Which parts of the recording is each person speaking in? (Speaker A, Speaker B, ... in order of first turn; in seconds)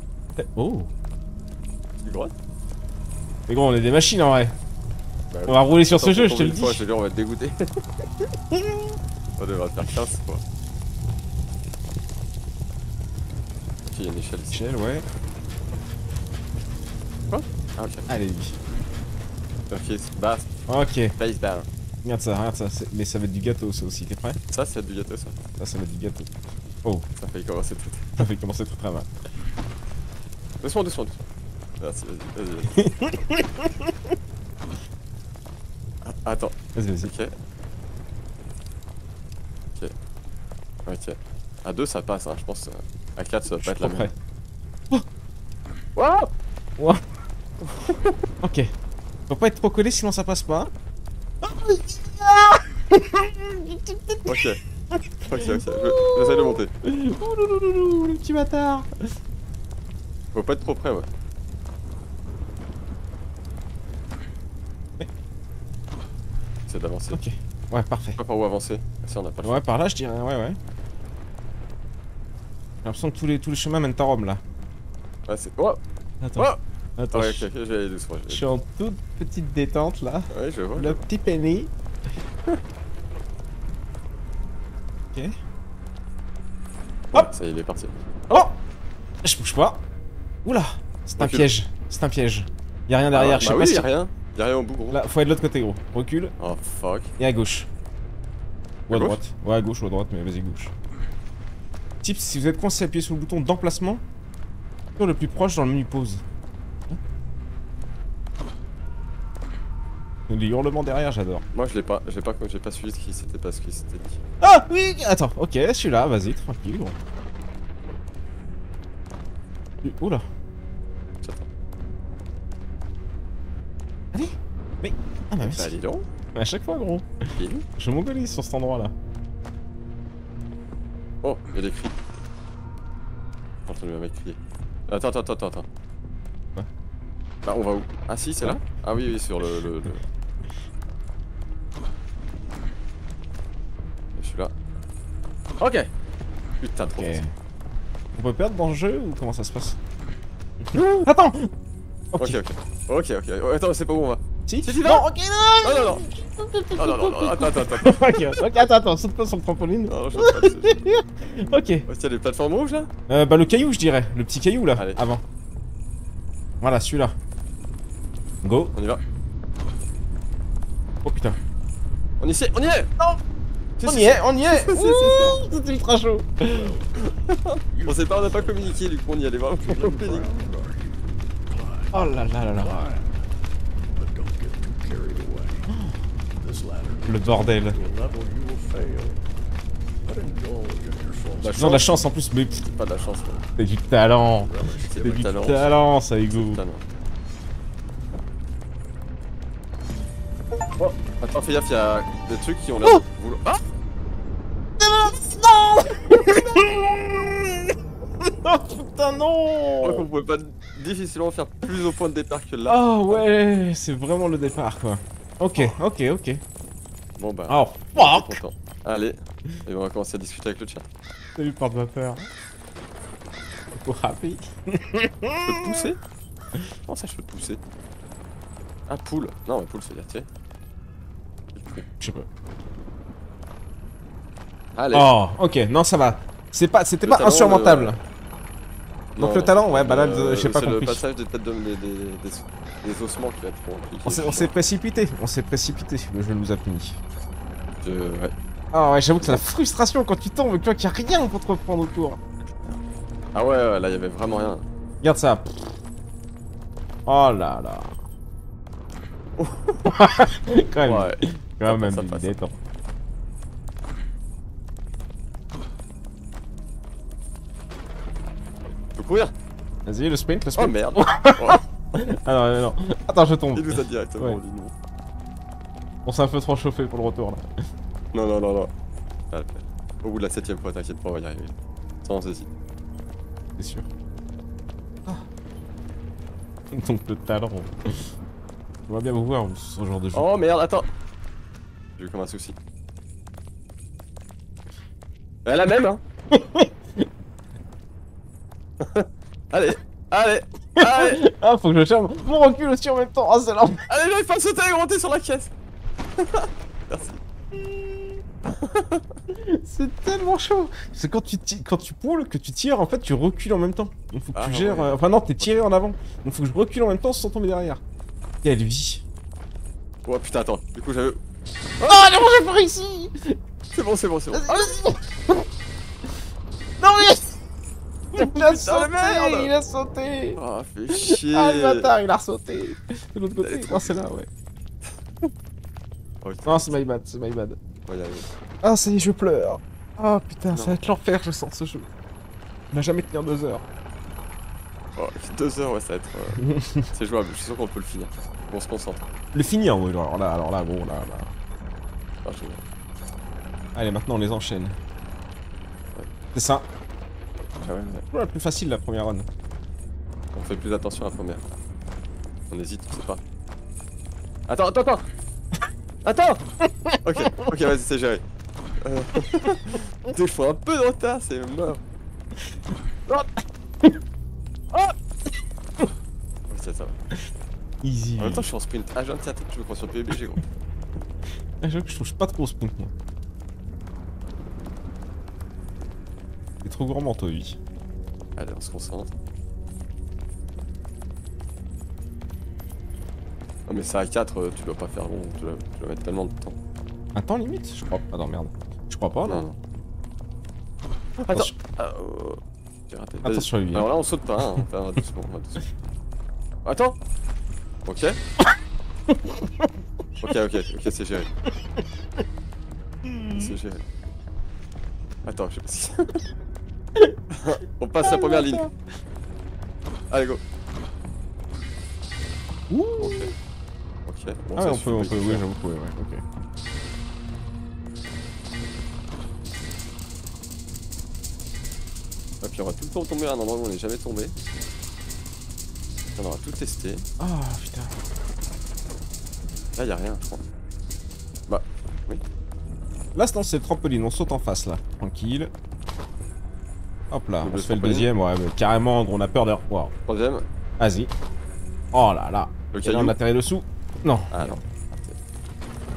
Speaker A: 0.4-0.9, 3.5-4.5, 5.5-6.8, 8.2-8.9, 14.5-15.0, 18.1-18.5, 20.7-21.1, 22.0-24.4, 25.6-26.3, 28.2-29.1, 32.7-34.1, 36.7-37.1, 43.6-44.1, 46.8-47.0, 48.4-48.7, 49.3-50.7, 51.4-59.1, 67.1-68.2, 69.4-70.6, 72.8-74.4, 76.2-77.5, 78.3-81.7, 88.3-88.6, 89.2-89.8, 90.4-93.9, 94.9-96.3, 97.2-97.7, 98.9-100.7, 102.0-104.0, 105.0-106.2, 110.3-111.4, 114.4-117.0, 119.8-120.2, 124.1-125.7, 126.3-128.9, 146.9-147.3, 148.1-149.8, 150.6-151.5, 152.1-152.4, 154.5-161.8, 163.1-165.2, 166.6-167.1, 168.4-168.7, 171.0-171.4, 173.8-176.7, 181.9-182.9, 187.1-187.8, 191.5-192.6, 193.6-194.5, 195.0-196.6, 204.8-210.1, 212.7-216.4, 217.5-218.4, 221.3-222.3, 223.7-225.9, 232.0-232.3, 234.9-238.0, 239.2-241.0, 244.1-247.0, 248.7-252.2, 255.0-255.7, 257.1-257.9, 259.9-262.6, 269.9-274.4, 276.0-277.5, 283.6-283.9, 286.7-288.1, 288.9-290.3, 296.3-297.1, 300.8-303.9, 307.5-308.2, 309.3-317.8, 318.4-319.0, 321.8-323.4, 324.3-325.4, 326.8-327.4, 328.1-330.4, 330.9-334.3, 336.4-337.6, 338.6-341.9, 342.7-343.6, 346.4-346.9, 349.3-351.3, 353.7-354.8, 356.3-356.7, 358.1-359.3, 366.6-367.4, 373.1-374.0, 377.8-378.5, 381.6-382.9, 386.6-387.6, 397.1-399.4, 403.2-403.9, 409.1-409.7, 413.0-413.5, 418.0-418.7, 422.7-423.3, 424.6-426.2, 437.2-438.0, 443.1-445.5, 447.1-449.9, 450.8-451.1, 451.9-454.6
Speaker B: 2.0-2.3, 5.3-7.8, 9.4-10.4, 13.9-14.6, 17.3-18.1, 19.7-20.5, 21.2-21.7, 24.5-25.4, 27.2-28.2, 30.6-31.2, 31.8-32.8, 36.0-37.3, 40.9-44.1, 46.0-46.3, 47.6-48.2, 54.2-54.6, 55.3-56.7, 60.3-61.1, 66.7-67.2, 68.2-69.6, 75.3-75.8, 77.1-78.4, 80.3-81.0, 87.1-88.4, 91.2-91.5, 93.1-95.0, 96.4-97.1, 98.9-99.2, 111.5-114.2, 121.2-121.5, 125.4-126.1, 127.3-127.7, 131.2-131.9, 133.7-135.7, 137.4-140.0, 144.2-144.5, 145.6-145.9, 146.6-147.2, 150.7-151.0, 152.2-155.0, 155.6-156.0, 156.8-158.5, 159.9-160.8, 161.8-162.9, 164.8-165.0, 168.7-169.0, 172.2-172.9, 173.8-175.4, 177.0-180.3, 191.4-191.8, 192.6-193.4, 194.9-196.8, 200.8-203.6, 209.8-213.2, 217.2-220.8, 225.4-226.0, 226.8-227.6, 228.9-230.3, 231.5-231.9, 234.8-235.1, 237.0-238.0, 239.1-244.5, 247.8-248.3, 253.3-254.6, 259.4-259.9, 260.8-262.3, 268.9-269.3, 270.6-271.6, 273.5-274.7, 278.1-278.7, 279.3-281.5, 282.0-282.5, 290.1-290.9, 292.0-292.6, 295.4-296.0, 298.8-301.2, 303.9-305.5, 306.2-307.2, 308.4-309.0, 314.3-315.5, 320.0-321.2, 323.7-324.7, 328.1-329.5, 330.4-331.9, 333.4-334.0, 336.2-336.8, 337.9-338.3, 340.5-340.8, 344.9-349.0, 352.2-352.6, 357.6-358.1, 360.3-361.4, 362.5-363.2, 364.5-365.1, 366.0-366.4, 367.0-368.2, 368.8-371.8, 376.5-376.9, 378.2-380.4, 388.4-389.1, 393.7-396.6, 399.3-399.6, 401.2-405.7, 406.6-407.0, 407.9-408.2, 410.2-411.3, 413.4-413.8, 415.2-416.2, 417.3-418.7, 420.1-420.4, 423.0-423.3, 424.1-425.4, 432.4-434.3, 436.1-437.1, 439.8-440.4, 441.5-442.2, 447.4-448.1, 450.1-450.4, 452.7-453.2, 454.3-455.2
Speaker C: 176.5-177.1, 177.7-178.8, 179.6-183.3, 183.9-185.8, 186.3-189.2, 190.0-191.9, 192.9-193.5, 194.3-195.2